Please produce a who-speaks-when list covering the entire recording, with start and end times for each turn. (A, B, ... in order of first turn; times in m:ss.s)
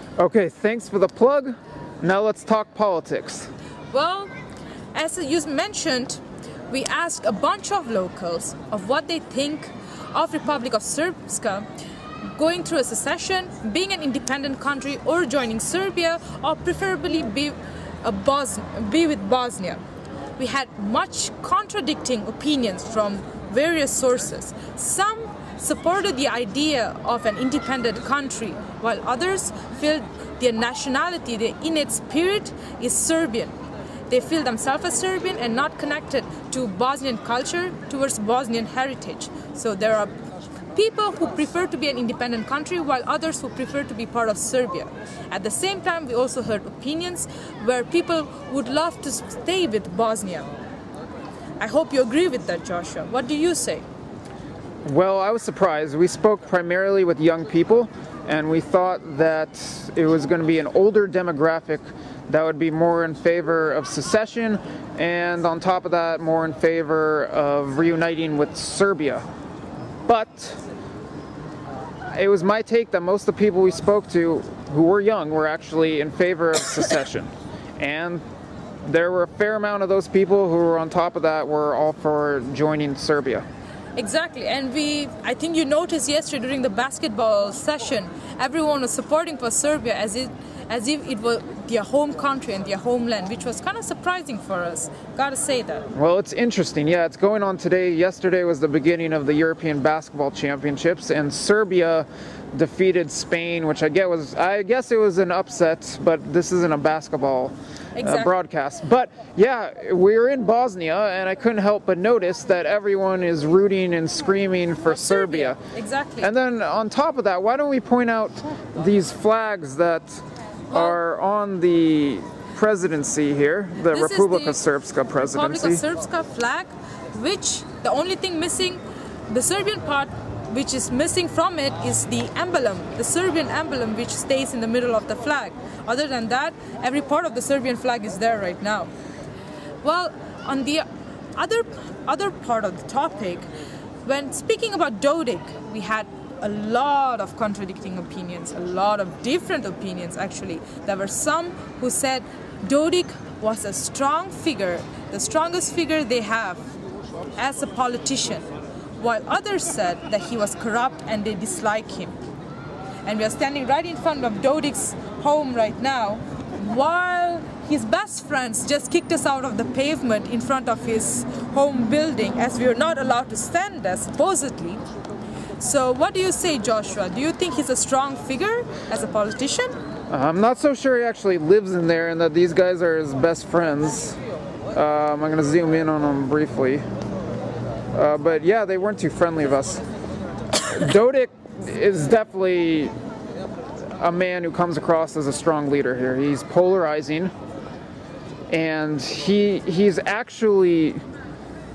0:00.2-0:03.5 A
0:03.9-0:04.3 B
0:04.9-0:11.7 B
0:12.3-0:19.8 B
0:20.4-0:33.5 B
0:34.1-0:40.1 B
0:40.7-0:50.5 B
0:51.6-0:53.8 B
0:54.8-1:09.2 A
1:10.0-1:10.6 A
1:12.1-1:18.2 A
1:18.8-1:23.4 A
1:24.0-1:35.9 B
1:35.9-1:55.6 A
1:48.0-1:48.3 B
1:55.1-1:56.3 B
1:56.2-2:05.8 A
2:00.7-2:01.0 B
2:03.8-2:04.6 B
2:05.2-2:18.9 B
2:19.8-2:23.5 B
2:24.0-2:36.6 B
2:37.4-2:38.5 B
2:39.0-2:42.1 B
2:43.0-2:54.8 B
2:55.6-2:59.8 B
3:00.1-3:04.2 A
3:04.7-3:06.8 A
3:07.9-3:09.8 A
3:10.6-3:12.9 A
3:14.0-3:17.3 A
3:18.5-3:21.0 A